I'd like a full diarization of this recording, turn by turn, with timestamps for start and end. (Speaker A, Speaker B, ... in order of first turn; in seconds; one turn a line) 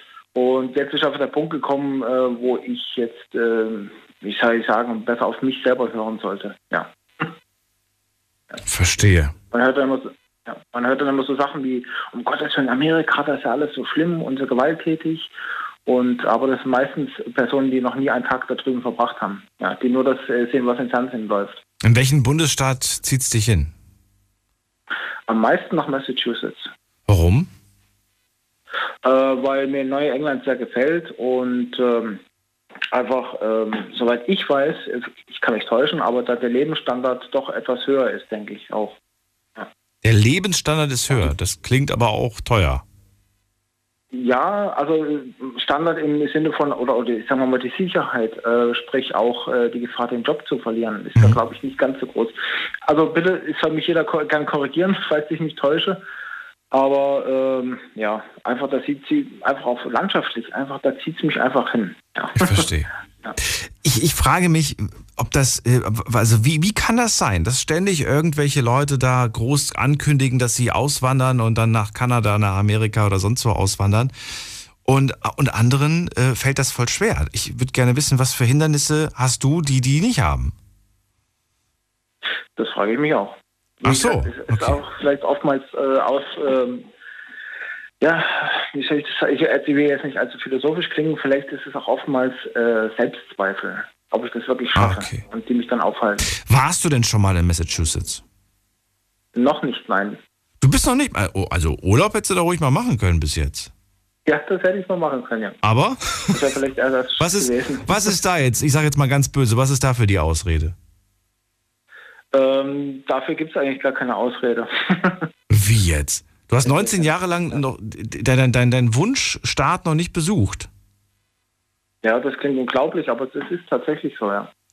Speaker A: 0.3-7.3
Speaker B: 8.7-9.3
Speaker A: 9.5-15.3
Speaker A: 15.8-21.6
Speaker B: 21.8-23.7
Speaker A: 25.3-26.7
Speaker B: 27.1-27.5
Speaker A: 29.0-32.2
Speaker A: 32.9-39.0
Speaker B: 40.0-42.8
Speaker A: 44.1-56.0
Speaker A: 56.7-62.7
Speaker B: 62.4-62.9
Speaker B: 63.4-80.5
Speaker A: 82.6-86.8
Speaker B: 83.8-84.8
Speaker A: 88.0-96.3
Speaker B: 94.7-95.2
Speaker B: 96.3-98.2
Speaker A: 99.3-100.2
Speaker B: 100.6-103.7
Speaker A: 104.2-105.6
Speaker B: 105.6-106.4
Speaker A: 106.3-108.1
Speaker B: 107.2-110.7
Speaker A: 112.3-115.2
Speaker B: 115.5-120.7
Speaker A: 116.6-117.1
Speaker A: 122.0-124.5